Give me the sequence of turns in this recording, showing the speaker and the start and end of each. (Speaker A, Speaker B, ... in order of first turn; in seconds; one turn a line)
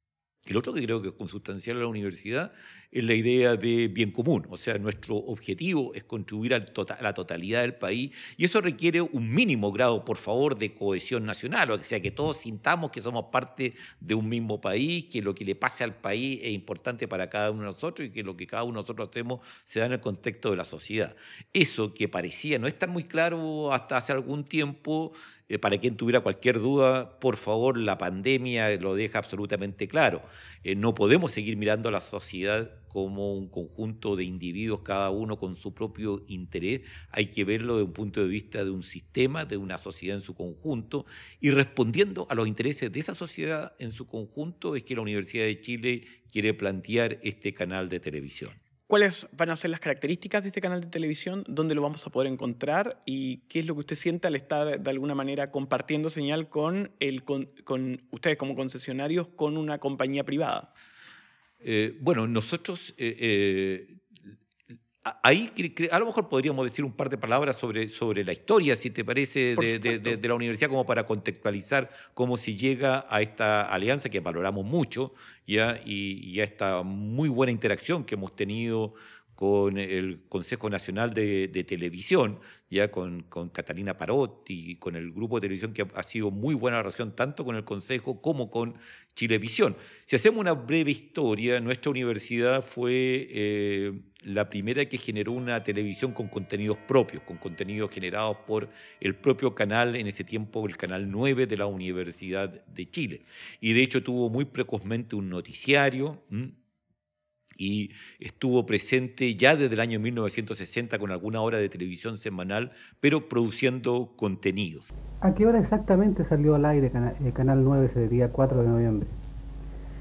Speaker A: 0.5-48.6
Speaker B: 48.9-60.7
Speaker A: 61.6-64.0
Speaker A: 65.0-106.5
Speaker B: 69.6-70.2
Speaker A: 107.6-114.9
Speaker C: 115.2-119.2